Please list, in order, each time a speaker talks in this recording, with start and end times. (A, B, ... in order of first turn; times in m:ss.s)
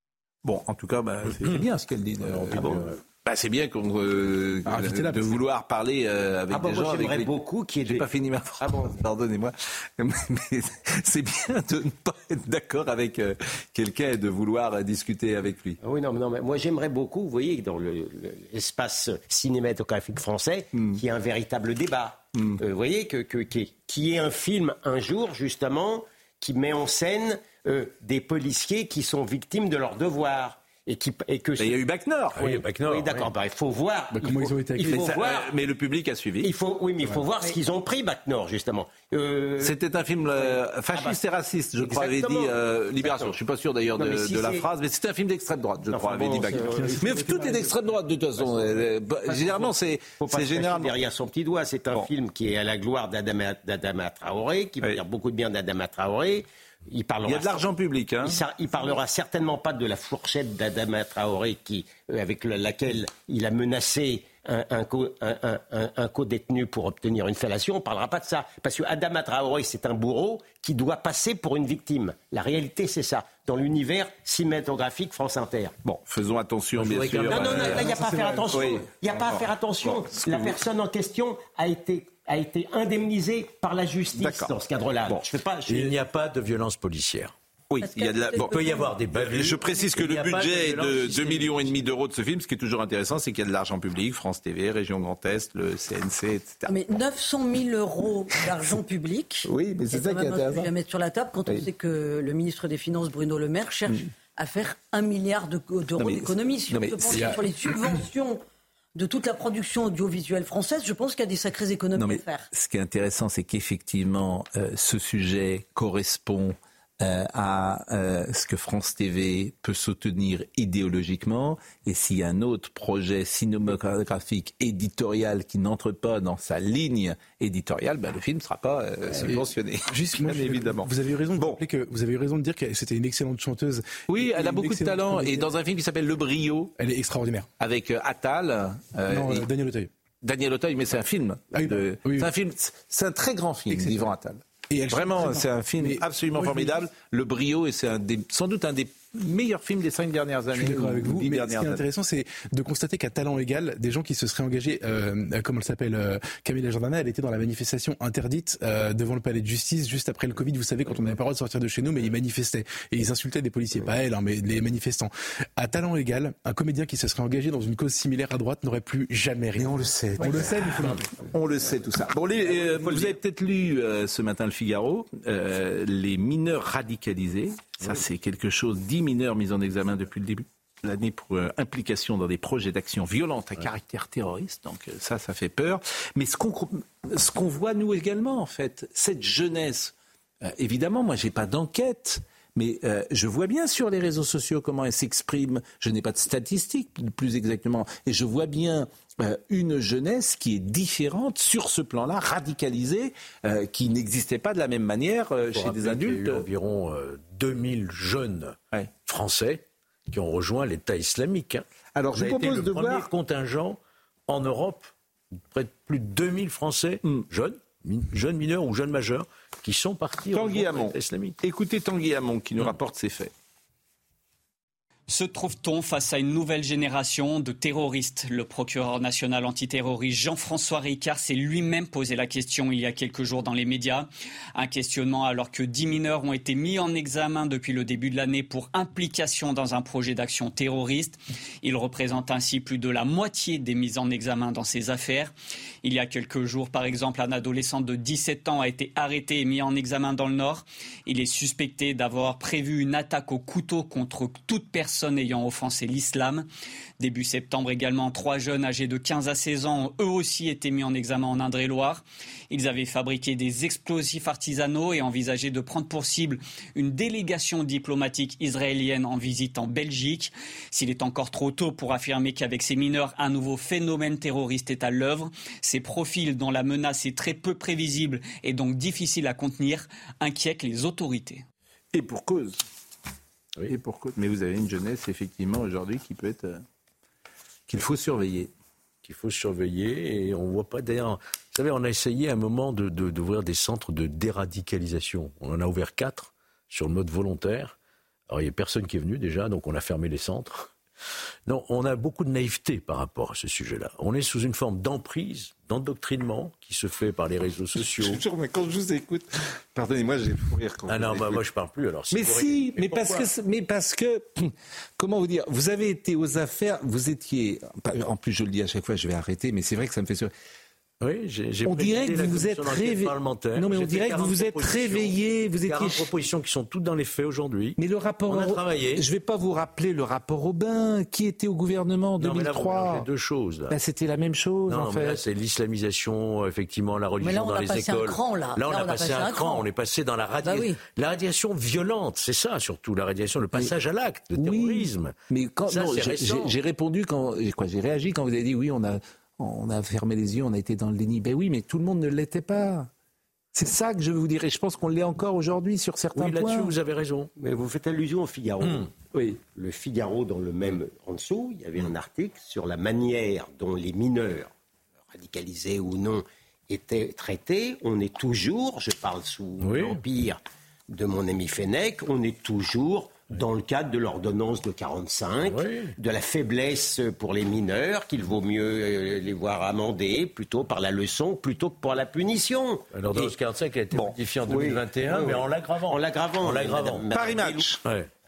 0:00.4-0:07.3 A
0:02.2-0:03.0 B
0:04.7-0:05.3 C
0:06.5-0:08.0 D
0:07.8-0:15.8 A
0:08.6-0:09.0 D
0:15.8-0:31.8 D
0:20.7-0:21.0 A
0:22.4-0:22.6 A
0:31.6-0:32.4 A
0:32.4-0:33.3 B
0:32.4-0:35.5 D
0:34.1-0:35.0 C
0:34.8-0:36.5 A
0:36.4-0:39.8 D
0:39.6-0:51.0 A
0:40.4-0:41.2 D
0:41.8-0:43.4 D
0:44.0-0:44.7 D
0:45.9-0:47.6 D
0:46.3-0:47.7 C
0:49.3-0:57.7 D
0:57.2-0:58.4 A
0:58.2-1:15.7 D
1:15.8-1:18.0 A
1:16.8-1:17.8 B
1:17.3-1:26.0 D
1:17.8-1:18.6 C
1:18.5-1:20.6 A
1:24.2-1:24.5 A
1:25.7-1:27.3 B
1:27.7-1:36.7 A
1:27.8-1:28.9 E
1:28.4-1:31.8 B
1:36.7-1:48.4 E
1:39.4-1:40.7 A
1:46.0-1:47.3 A
1:47.2-1:47.4 C
1:49.0-1:52.5 E
1:52.0-2:11.6 A
2:09.1-2:15.5 C
2:14.1-2:16.7 A
2:16.8-2:17.5 C
2:17.6-2:19.5 A
2:19.1-2:19.9 C
2:20.2-2:31.8 A
2:21.5-2:22.3 C
2:23.7-2:24.1 C
2:24.7-2:26.8 C
2:30.5-2:51.2 C
2:49.6-3:26.5 A
2:52.5-2:53.1 D
3:25.5-3:41.4 B
3:32.0-3:33.1 A
3:40.3-3:43.3 A
3:45.1-4:16.5 F
4:17.0-4:41.4 F
4:41.9-4:42.6 A
4:43.7-4:46.6 A
4:47.7-4:48.5 A
4:49.0-4:57.8 B
4:58.3-5:00.7 B
5:01.5-5:08.2 B
5:07.8-5:11.4 A
5:10.9-5:13.3 B
5:12.1-5:20.3 A
5:21.0-5:29.0 B
5:21.7-5:26.1 A
5:27.8-5:33.1 A
5:32.2-5:33.8 B
5:33.7-5:35.2 A
5:34.7-5:45.2 B
5:37.2-5:39.6 E
5:40.4-5:40.8 E
5:44.3-5:52.9 A
5:45.7-5:46.6 B
5:53.5-5:56.7 A
5:56.2-5:57.3 B
5:57.4-5:58.9 D
5:58.6-5:58.9 B
5:59.1-5:59.4 A
5:59.5-6:04.5 D
6:05.1-6:10.4 D
6:09.6-6:10.0 B
6:10.9-6:23.3 D
6:15.4-6:15.9 B
6:22.9-6:27.1 B
6:24.5-6:27.7 D
6:27.1-6:27.8 A
6:27.8-6:28.1 B